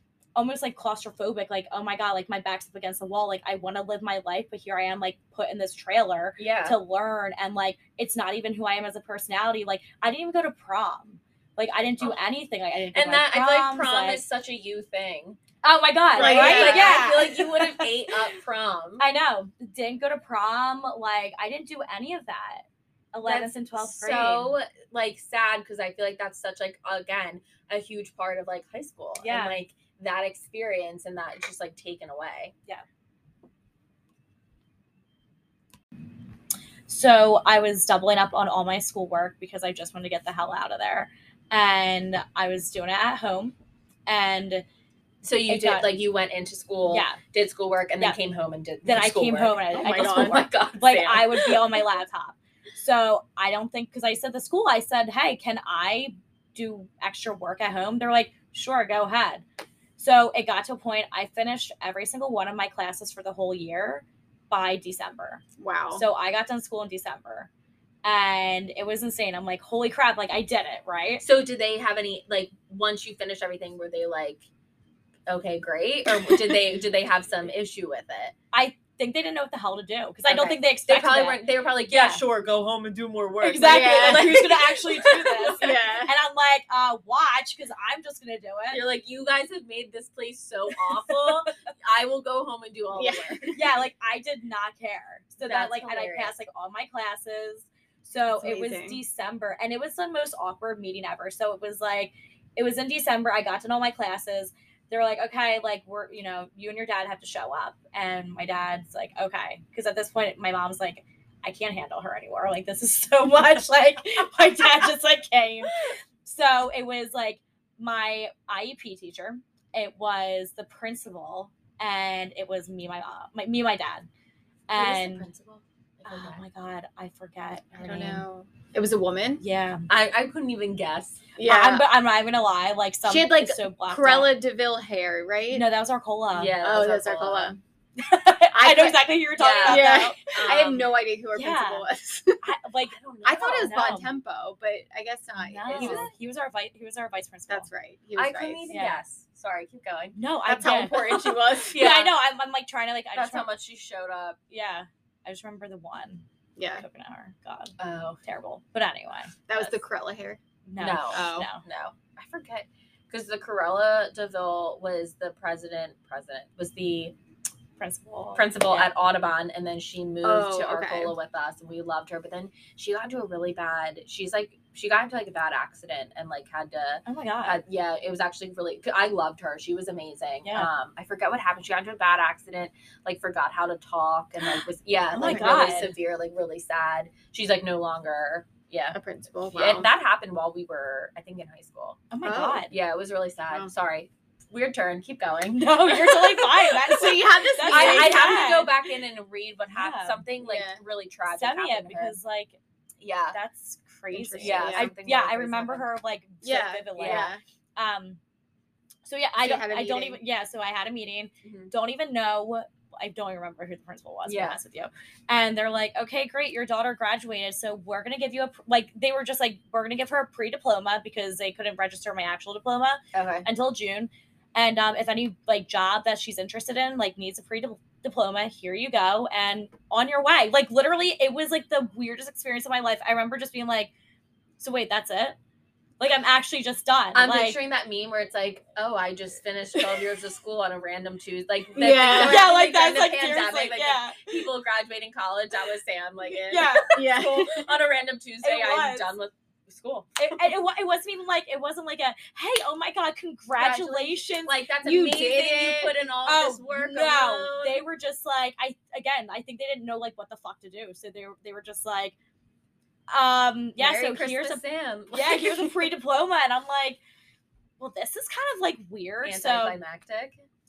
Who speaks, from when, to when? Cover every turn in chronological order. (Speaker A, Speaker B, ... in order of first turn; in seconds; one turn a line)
Speaker A: 0.3-14.2
Speaker B: 6.4-6.8
Speaker B: 12.9-15.4
Speaker A: 15.6-17.8
Speaker B: 16.1-19.0
Speaker C: 16.1-17.5
Speaker A: 19.0-24.5
Speaker B: 23.2-32.5
Speaker A: 29.2-29.6
Speaker A: 36.9-43.5
Speaker A: 44.1-44.6
Speaker B: 45.2-51.6
Speaker A: 45.5-46.0
Speaker A: 46.9-47.2
Speaker A: 48.8-59.4
Speaker C: 49.7-50.4
Speaker A: 60.0-67.5
Speaker C: 65.6-66.0
Speaker A: 68.0-71.2
Speaker B: 71.2-74.4
Speaker B: 75.3-78.3
Speaker A: 78.5-82.2
Speaker B: 80.2-85.7
Speaker A: 83.4-88.8
Speaker C: 83.6-84.5
Speaker C: 85.2-86.1
Speaker B: 88.7-93.5
Speaker C: 92.9-93.5
Speaker A: 93.5-124.1
Speaker B: 95.4-96.3
Speaker C: 98.4-99.0
Speaker A: 124.7-125.3
Speaker B: 124.7-126.4
Speaker A: 126.0-128.2
Speaker C: 127.8-129.4
Speaker A: 129.4-129.9
Speaker B: 129.9-131.3
Speaker C: 131.4-131.8
Speaker A: 131.4-134.3
Speaker C: 133.1-135.6
Speaker A: 135.5-136.6
Speaker B: 136.3-137.6
Speaker C: 136.6-137.6
Speaker A: 138.0-140.6
Speaker C: 138.5-139.0
Speaker B: 139.4-140.9
Speaker C: 139.6-142.4
Speaker A: 141.3-141.9
Speaker A: 142.4-144.1
Speaker B: 142.9-143.8
Speaker C: 143.2-146.1
Speaker A: 145.3-147.7
Speaker B: 145.7-146.1
Speaker C: 147.5-148.7
Speaker B: 148.2-150.2
Speaker A: 148.7-149.0
Speaker A: 150.1-153.5
Speaker C: 150.4-151.9
Speaker B: 151.7-152.1
Speaker B: 153.1-154.4
Speaker A: 154.5-159.8
Speaker C: 156.6-156.8
Speaker B: 157.8-158.2
Speaker C: 159.5-160.4
Speaker A: 160.7-161.6
Speaker B: 160.8-167.1
Speaker C: 161.1-161.5
Speaker A: 167.8-168.9
Speaker B: 168.3-188.9
Speaker C: 170.2-171.1
Speaker A: 177.0-177.6
Speaker A: 180.4-180.7
Speaker A: 185.1-185.9
Speaker C: 185.2-185.6
Speaker C: 188.9-189.9
Speaker B: 189.5-192.0
Speaker A: 192.1-192.7
Speaker C: 192.2-192.7
Speaker B: 192.7-196.3
Speaker A: 195.5-198.7
Speaker C: 196.6-198.4
Speaker B: 197.7-202.2
Speaker A: 199.7-200.2
Speaker C: 200.4-200.8
Speaker A: 201.3-202.6
Speaker B: 203.0-203.3
Speaker A: 203.3-208.2
Speaker C: 204.1-204.9
Speaker B: 204.4-205.8
Speaker C: 206.4-207.4
Speaker B: 207.0-207.3
Speaker A: 209.0-233.9
Speaker C: 209.4-210.2
Speaker B: 211.4-211.7
Speaker B: 214.2-214.6
Speaker B: 223.1-223.4
Speaker A: 234.6-235.4
Speaker A: 236.0-237.6
Speaker B: 237.1-250.4
Speaker C: 241.7-242.5
Speaker A: 242.1-244.2
Speaker C: 246.3-247.7
Speaker A: 246.5-247.4
Speaker A: 248.4-249.1
Speaker A: 250.2-254.8
Speaker B: 253.6-257.8
Speaker C: 254.8-256.0
Speaker A: 256.2-262.1
Speaker A: 263.1-267.0
Speaker B: 263.8-265.7
Speaker A: 267.8-269.8
Speaker B: 269.2-270.4